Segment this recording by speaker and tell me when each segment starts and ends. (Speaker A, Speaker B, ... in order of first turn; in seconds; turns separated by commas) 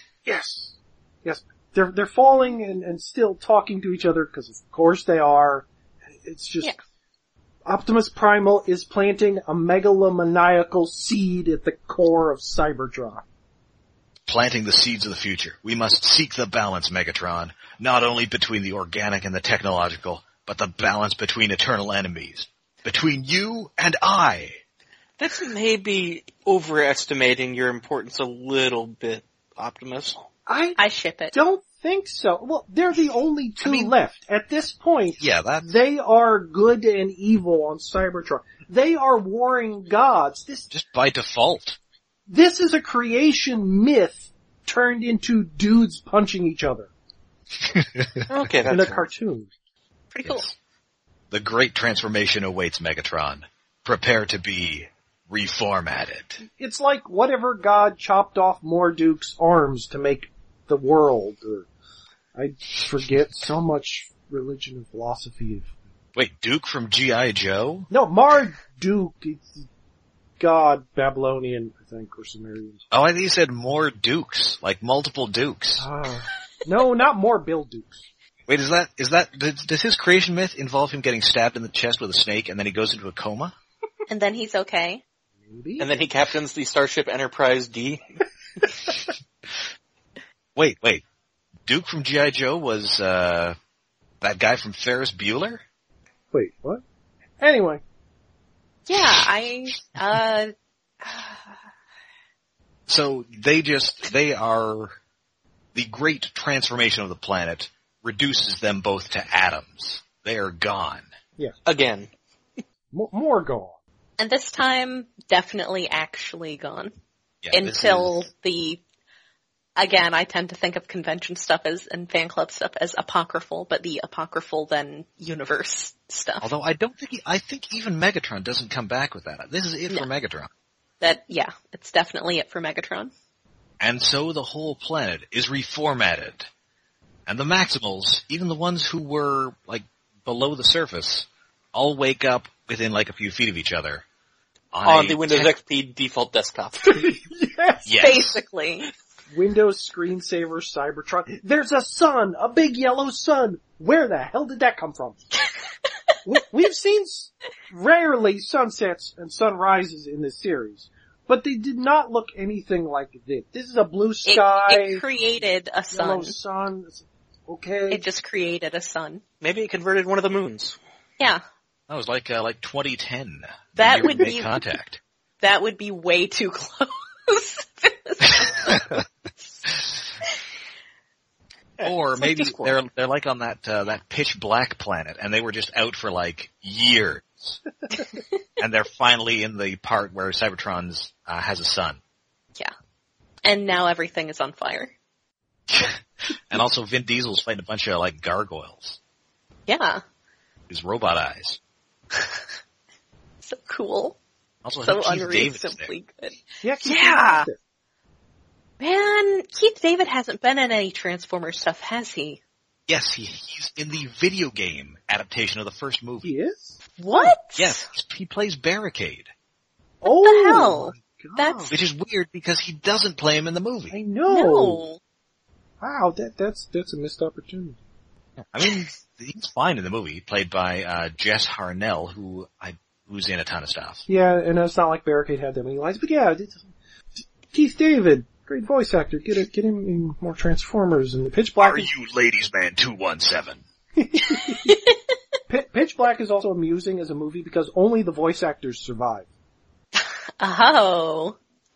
Speaker A: 0.2-5.7, Speaker A: 6.2-6.7, Speaker A: 7.6-13.2, Speaker B: 14.3-24.6, Speaker C: 25.2-30.2, Speaker A: 30.5-30.8, Speaker D: 30.8-31.4, Speaker A: 31.3-40.7, Speaker B: 33.6-33.9, Speaker B: 35.2-35.8, Speaker B: 40.7-41.8, Speaker A: 42.3-46.9, Speaker B: 47.7-48.2, Speaker C: 48.3-49.0, Speaker A: 48.7-49.5, Speaker D: 50.1-50.5, Speaker B: 50.2-50.5, Speaker B: 51.3-56.4, Speaker A: 56.4-61.7, Speaker A: 62.3-65.7, Speaker B: 66.1-67.9, Speaker A: 67.9-69.7, Speaker A: 70.4-72.8, Speaker B: 72.9-75.9, Speaker A: 75.8-78.0, Speaker B: 78.5-83.5, Speaker D: 84.1-85.0, Speaker A: 85.4-85.9, Speaker C: 85.8-88.0, Speaker B: 90.5-91.0, Speaker B: 91.7-93.5, Speaker B: 94.2-95.6, Speaker A: 96.3-96.8, Speaker A: 97.4-97.8, Speaker D: 98.9-100.5, Speaker D: 101.0-101.4, Speaker B: 102.9-104.9, Speaker B: 105.7-111.1, Speaker C: 111.7-112.1, Speaker A: 112.9-113.8, Speaker D: 114.2-116.9, Speaker B: 117.4-118.2, Speaker D: 117.5-118.8, Speaker D: 119.8-126.5, Speaker B: 126.4-130.5, Speaker D: 131.0-133.1, Speaker B: 133.8-136.5, Speaker B: 137.3-144.0, Speaker B: 144.7-145.5, Speaker C: 144.8-147.1, Speaker A: 146.9-147.9, Speaker B: 147.8-148.4, Speaker D: 148.0-148.9, Speaker A: 149.3-155.3, Speaker A: 156.2-165.0, Speaker D: 164.2-166.3, Speaker A: 165.9-168.0, Speaker D: 167.9-169.2, Speaker C: 169.4-170.8, Speaker B: 171.9-175.0, Speaker D: 173.8-174.6, Speaker D: 175.4-179.0, Speaker B: 178.7-179.0, Speaker C: 181.8-182.7, Speaker B: 181.8-187.6, Speaker B: 188.6-192.0, Speaker D: 193.4-194.9, Speaker B: 195.7-199.0, Speaker D: 199.7-200.0, Speaker B: 200.7-201.6, Speaker D: 202.1-202.4, Speaker D: 203.4-204.2, Speaker B: 204.6-205.9, Speaker D: 204.8-207.5, Speaker A: 206.6-207.6, Speaker D: 208.8-212.4, Speaker B: 212.9-216.3, Speaker A: 216.2-217.3, Speaker D: 217.0-217.8, Speaker B: 217.6-219.3, Speaker A: 220.0-221.7, Speaker D: 220.0-221.7, Speaker B: 221.7-224.0, Speaker A: 223.9-224.8, Speaker D: 224.3-225.0, Speaker A: 225.8-227.8, Speaker B: 228.4-234.0, Speaker A: 234.1-241.9, Speaker B: 241.6-243.6, Speaker A: 243.9-244.8, Speaker D: 244.4-245.0, Speaker A: 245.5-249.3, Speaker D: 249.9-251.3